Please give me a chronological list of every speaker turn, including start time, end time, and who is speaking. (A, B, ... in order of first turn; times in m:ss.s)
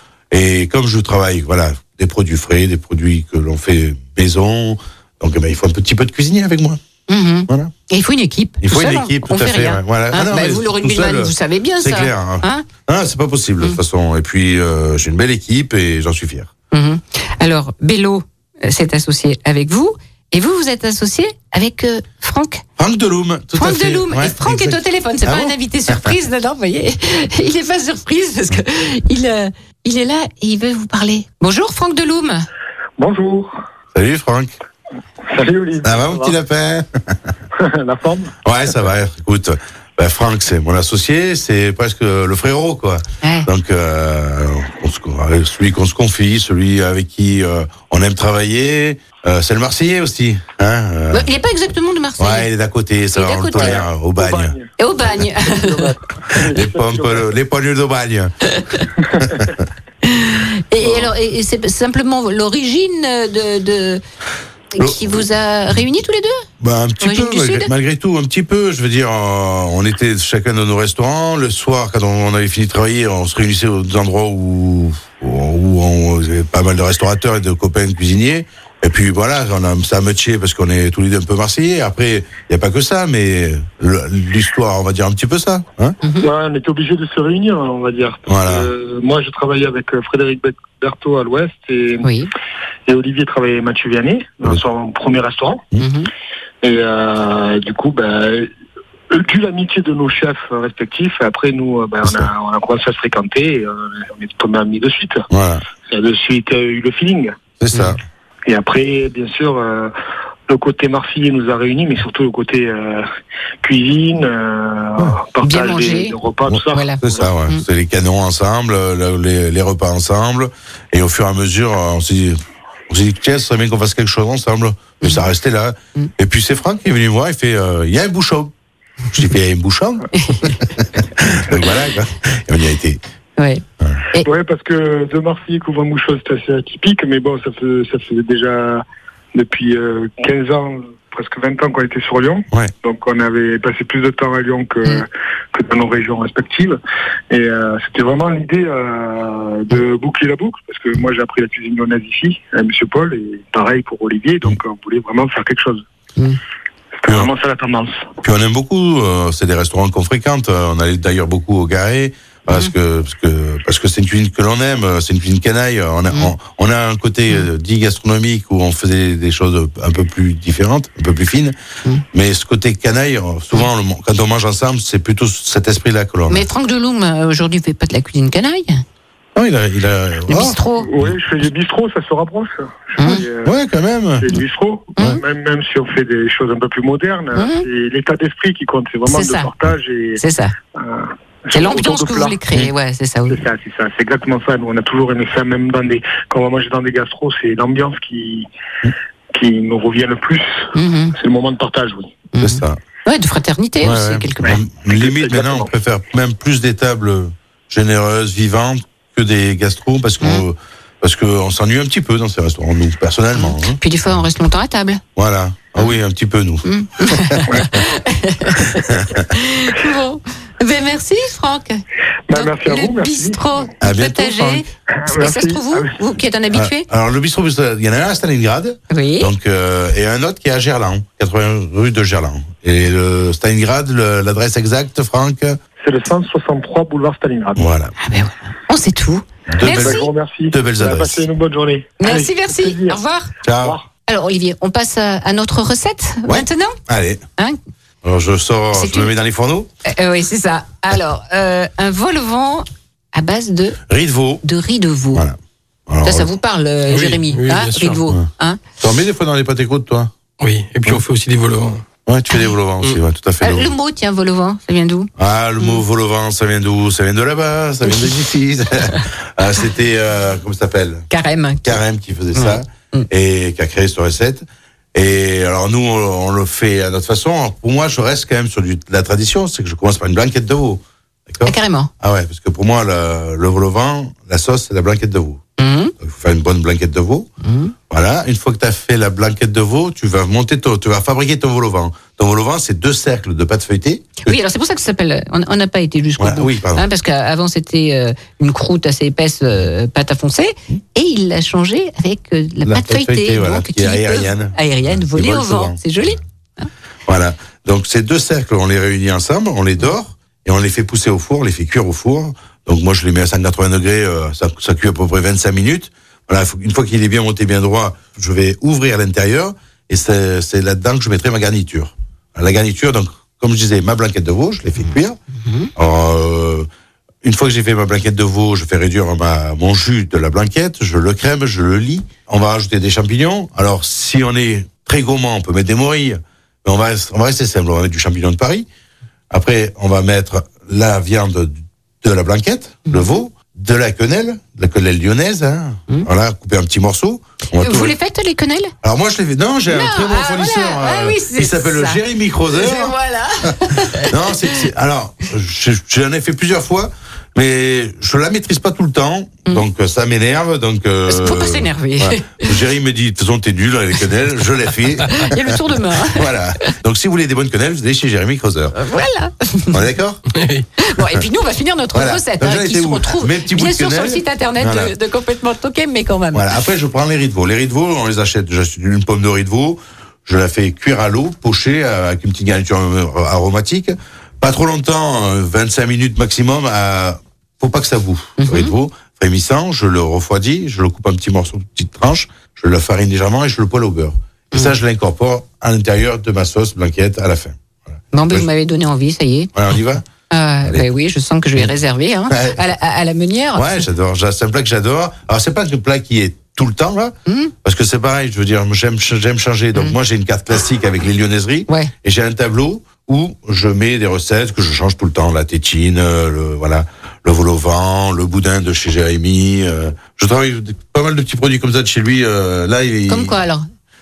0:00.3-0:06.8 A
0:07.1-0:12.7 B
0:08.6-0:16.5 A
0:16.7-0:22.6 B
0:22.8-0:26.2 A
0:23.6-0:32.5 B
0:33.0-0:33.5 C
0:33.9-0:34.5 A
0:35.3-0:36.4 C
0:35.8-0:37.3 A
0:37.6-0:38.3 C
0:38.4-0:51.3 A
0:43.2-0:43.5 B
0:51.1-0:52.5 B
0:52.2-0:54.6 A
0:53.2-0:53.8 B
0:53.6-0:57.3 C
0:54.8-0:56.0 B
0:56.5-0:58.4 A
0:59.0-0:59.5 C
0:59.2-0:59.6 A
1:00.0-1:04.0 B
1:04.8-1:06.5 B
1:04.8-1:05.2 A
1:06.6-1:26.0 A
1:07.0-1:07.7 B
1:26.0-1:26.3 B
1:26.2-1:32.1 C
1:28.3-1:28.7 A
1:32.0-1:32.3 B
1:32.9-1:35.6 C
1:35.8-1:36.1 B
1:36.6-1:38.5 C
1:39.1-1:45.2 C
1:42.0-1:42.3 A
1:45.3-1:45.6 A
1:45.9-1:47.4 C
1:47.6-1:48.0 A
1:48.5-1:49.9 C
1:50.5-1:53.1 C
1:53.6-1:57.3 C
1:55.4-1:56.2 B
1:56.5-2:08.5 A
1:56.7-1:57.6 B
2:09.1-2:10.1 A
2:10.2-2:10.6 B
2:10.8-2:13.0 A
2:13.4-2:14.3 B
2:14.2-2:26.8 C
2:27.3-2:35.8 C
2:37.0-2:38.0 C
2:38.2-2:51.6 A
2:52.1-2:56.5 A
2:56.3-2:58.8 B
2:59.4-3:01.2 A
3:00.3-3:00.9 B
3:00.8-3:03.6 C
3:03.0-3:03.2 B
3:03.4-3:04.4 A
3:04.2-3:10.2 C
3:07.4-3:07.6 B
3:09.1-3:09.5 B
3:10.2-3:10.5 B
3:10.8-3:12.4 C
3:11.5-3:13.4 B
3:13.3-3:18.5 C
3:19.3-3:22.1 C
3:20.8-3:21.2 B
3:22.3-3:24.6 B
3:22.4-3:22.8 A
3:23.8-3:33.8 A
3:24.5-3:25.7 C
3:33.4-3:35.0 B
3:35.2-3:37.8 A
3:36.7-3:46.9 B
3:38.6-3:39.3 A
3:42.3-3:43.6 C
3:43.8-3:44.6 A
3:44.9-3:46.0 C
3:46.5-3:55.6 A
3:48.9-3:49.3 B
3:55.8-3:57.7 C
3:57.6-3:57.9 A
3:58.0-4:00.1 B
3:59.5-4:01.3 A
3:59.7-4:03.0 C
4:02.0-4:03.3 B
4:03.4-4:03.8 A
4:03.6-4:03.9 C
4:04.1-4:06.8 B
4:06.3-4:07.3 A
4:08.0-4:09.7 A
4:08.8-4:09.1 B
4:09.9-4:13.8 B
4:13.9-4:14.4 A
4:14.4-4:15.2 B
4:15.1-4:16.3 A
4:16.0-4:18.6 B
4:16.9-4:18.0 D
4:18.8-4:20.1 A
4:20.4-4:21.8 D
4:22.1-4:23.7 A
4:23.4-4:25.8 B
4:25.2-4:31.1 A
4:31.1-4:31.8 B
4:31.6-4:45.4 A
4:32.4-4:33.1 B
4:41.4-4:41.9 B
4:45.6-4:45.9 B
4:46.0-4:47.3 A
4:47.4-4:47.7 B
4:47.9-4:54.4 A
4:54.3-5:06.7 B
4:56.2-4:56.9 A
5:02.6-5:06.1 A
5:07.1-5:25.2 A
5:25.4-5:25.7 B
5:25.8-5:26.7 A
5:27.2-5:38.7 A
5:39.3-5:48.0 A
5:42.9-5:43.2 B
5:47.6-5:48.7 B
5:48.8-6:08.8 A
5:49.7-5:52.0 B
5:52.5-5:54.5 B
6:01.1-6:02.5 B
6:05.1-6:06.3 B
6:08.8-6:09.8 B
6:09.7-6:10.2 A
6:10.3-6:10.7 D
6:10.8-6:16.5 B
6:11.9-6:14.9 A
6:16.3-6:38.5 A
6:28.4-6:28.7 B
6:38.1-6:39.5 B
6:39.5-6:40.0 A
6:40.3-6:43.8 B
6:42.3-6:42.6 A
6:43.6-7:03.4 A
6:47.3-6:47.5 B
7:03.1-7:03.6 B